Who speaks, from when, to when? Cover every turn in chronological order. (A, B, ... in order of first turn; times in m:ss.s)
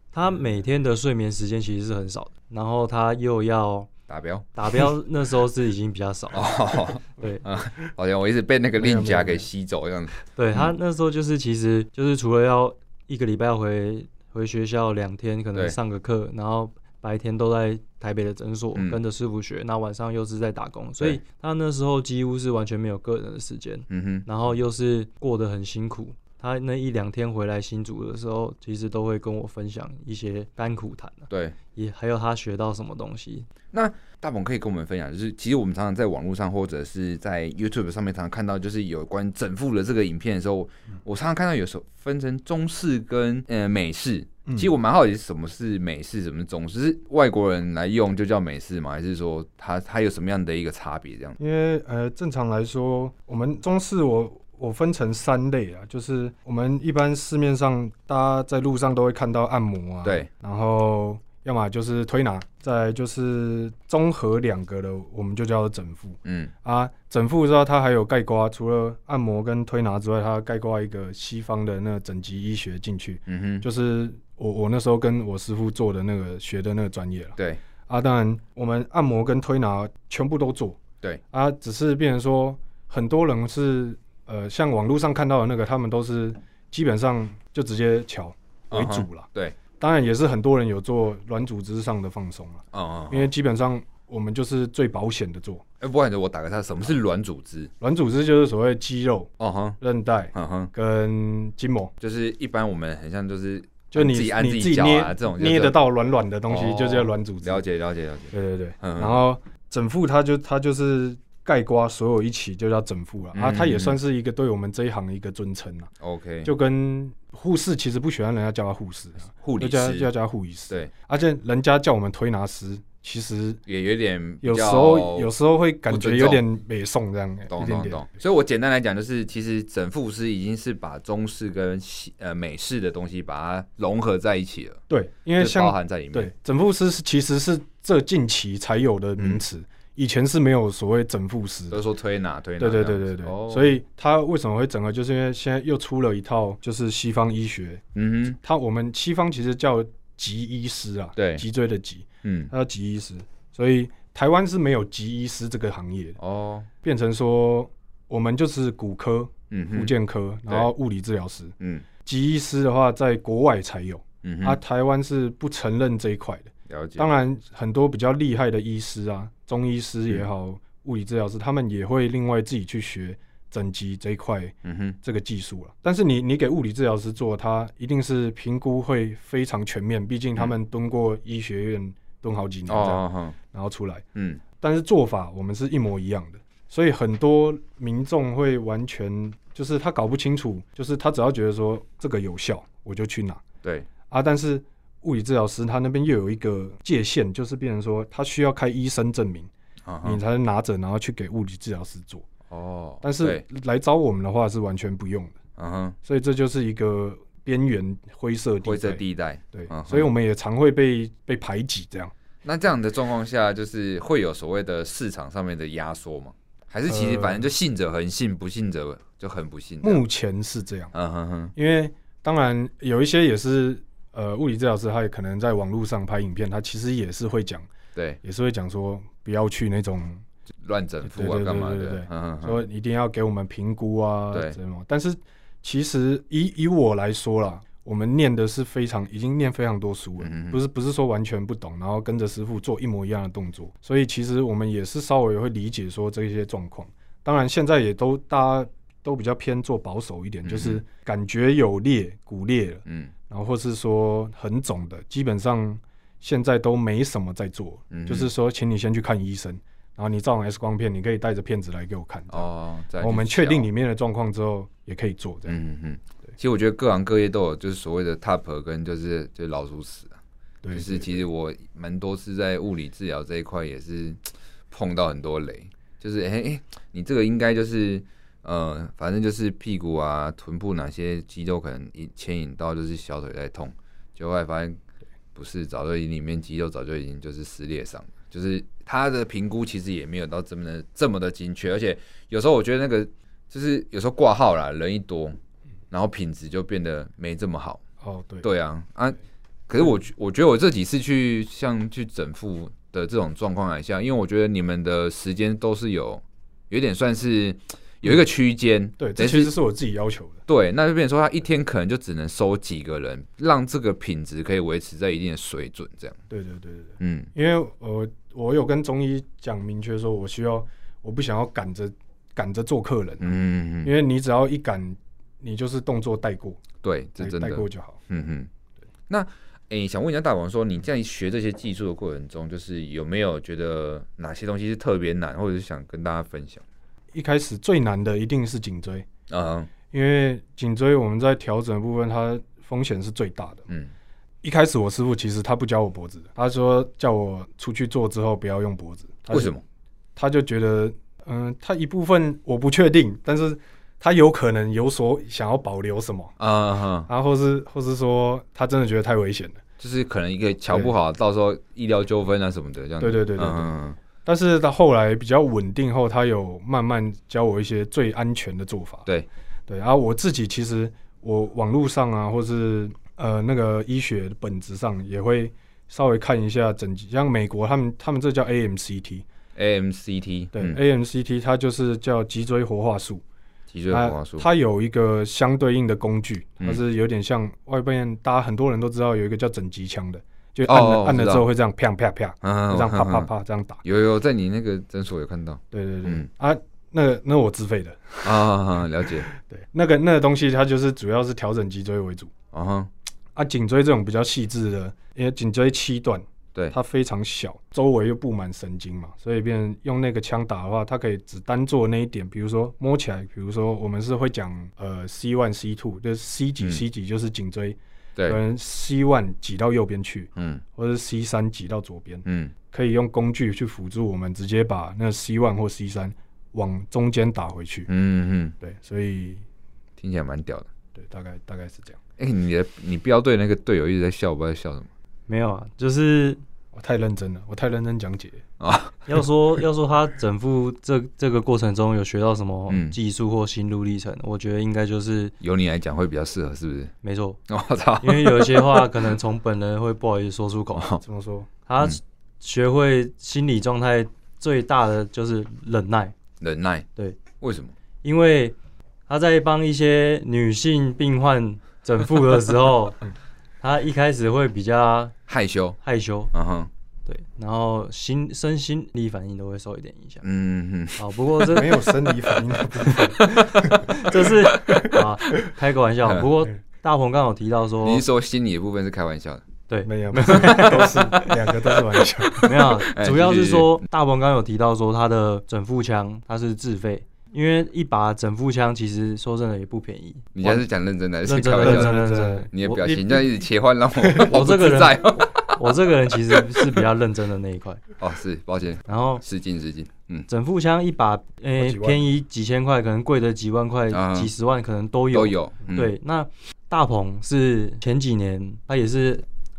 0:00.1-0:03.9 A
0:04.1-0:04.5 B
0:04.6-0:06.5 A
0:06.3-0:10.7 B
0:07.0-0:07.4 A
0:08.8-0:09.5 C
0:10.4-0:33.5 A
0:18.8-0:19.0 B
0:23.9-0:24.3 B
0:31.3-0:31.6 B
0:33.7-0:51.4 B
0:51.4-1:20.8 C
1:06.2-1:06.5 B
1:13.3-1:13.7 B
1:21.3-1:29.3 C
1:28.7-1:29.6 B
1:29.8-1:35.6 C
1:32.7-1:33.3 B
1:35.8-1:37.7 B
1:37.8-1:41.9 C
1:39.4-1:39.8 B
1:40.3-1:40.7 B
1:42.0-1:45.8 B
1:43.9-1:47.6 C
1:46.5-1:49.2 B
1:48.3-1:55.9 C
1:53.3-1:54.0 B
1:56.0-1:56.5 B
1:56.4-2:03.6 C
1:59.4-2:00.1 B
2:03.7-2:05.3 B
2:04.4-2:08.0 C
2:05.9-2:06.4 B
2:07.5-2:14.8 B
2:14.9-2:21.8 C
2:15.4-2:16.3 B
2:19.2-2:19.4 B
2:21.7-2:23.8 B
2:22.6-2:27.8 C
2:28.0-2:28.4 B
2:28.4-2:36.2 C
2:31.2-2:31.4 B
2:32.2-2:32.5 B
2:36.2-2:36.7 B
2:36.8-3:04.0 C
2:39.5-2:39.9 B
2:41.6-2:41.9 B
2:44.2-2:44.6 B
2:46.7-2:47.1 B
2:54.6-2:55.0 B
3:02.7-3:03.4 B
3:04.2-3:04.4 B
3:04.6-3:13.4 C
3:14.1-3:19.5 C
3:19.8-3:20.2 B
3:20.0-3:22.3 C
3:22.5-3:23.4 B
3:23.0-3:25.4 C
3:25.6-3:26.0 B
3:26.0-3:32.1 C
3:28.6-3:30.1 B
3:32.4-3:40.0 B
3:36.9-3:37.5 C
3:39.8-3:40.9 C
3:40.9-3:41.5 B
3:41.6-3:47.7 C
3:48.2-3:50.2 C
3:50.6-3:52.6 B
3:51.0-4:25.6 C
3:54.3-3:54.6 B
4:00.2-4:00.6 B
4:10.4-4:10.8 B
4:12.9-4:13.1 B
4:17.9-4:18.3 B
4:22.3-4:23.7 B
4:25.5-4:30.2 B
4:30.6-4:31.2 C
4:30.7-4:44.8 B
4:45.4-4:55.4 B
4:55.9-4:57.8 B
4:58.0-4:58.5 C
4:58.4-4:59.2 B
4:59.7-5:09.5 B
5:09.0-5:10.4 C
5:10.5-5:16.2 B
5:16.3-5:26.6 C
5:17.0-5:17.3 B
5:23.2-5:23.9 B
5:26.8-5:28.5 B
5:27.2-5:28.0 C
5:29.1-5:36.6 B
5:37.1-5:39.1 C
5:39.3-5:39.7 B
5:39.9-5:43.7 C
5:44.4-5:49.6 C
5:49.3-5:49.6 B
5:50.2-5:56.4 C
5:56.4-5:57.1 B
5:57.1-5:59.6 C
5:59.8-6:04.0 B
6:03.0-6:03.7 C
6:04.2-6:09.1 C
6:09.7-6:19.3 C
6:19.6-6:20.8 B
6:20.5-6:23.2 C
6:23.7-6:24.5 B
6:23.9-6:33.8 C
6:30.7-6:31.5 B
6:32.4-6:33.3 B
6:33.8-6:36.3 B
6:35.7-6:38.4 C
6:38.2-6:39.3 B
6:39.3-6:42.3 C
6:42.5-6:42.9 B
6:43.4-7:07.9 C
7:00.4-7:00.6 B
7:02.2-7:02.5 B
7:07.9-7:08.6 B
7:08.6-7:09.4 C
7:10.0-7:10.7 B
7:11.0-7:12.0 C
7:12.2-7:14.9 B
7:15.3-7:16.4 A
7:16.7-7:18.4 C
7:18.6-7:19.2 B
7:19.1-7:25.3 A
7:22.7-7:23.0 B
7:25.4-7:26.9 B
7:27.0-7:27.4 A
7:27.5-7:29.1 B
7:28.0-7:30.9 A
7:30.8-7:31.0 B
7:31.0-7:31.5 C
7:31.7-7:36.1 A
7:36.4-7:36.9 B
7:37.4-7:37.7 B
7:38.0-7:38.6 A
7:39.1-7:43.1 A
7:43.6-7:45.2 A
7:45.3-7:45.8 B
7:45.8-7:46.3 A
7:46.3-7:46.7 B
7:47.1-7:50.2 A
7:50.2-7:51.6 B
7:51.0-7:51.9 A
7:51.5-7:54.1 C
7:53.2-7:55.0 B
7:53.2-7:58.0 A
7:57.8-7:59.5 B
7:59.7-8:01.0 A
7:59.8-8:02.7 C
8:00.2-8:01.5 B
8:02.4-8:10.6 A
8:02.5-8:03.8 B
8:10.4-8:12.0 B
8:11.2-8:13.2 A
8:11.6-8:12.5 C
8:12.5-8:16.9 B
8:14.1-8:17.8 A
8:18.0-8:20.3 B
8:18.9-8:19.2 A
8:20.3-8:29.3 A
8:21.6-8:22.0 C
8:23.9-8:24.3 B
8:25.1-8:25.9 B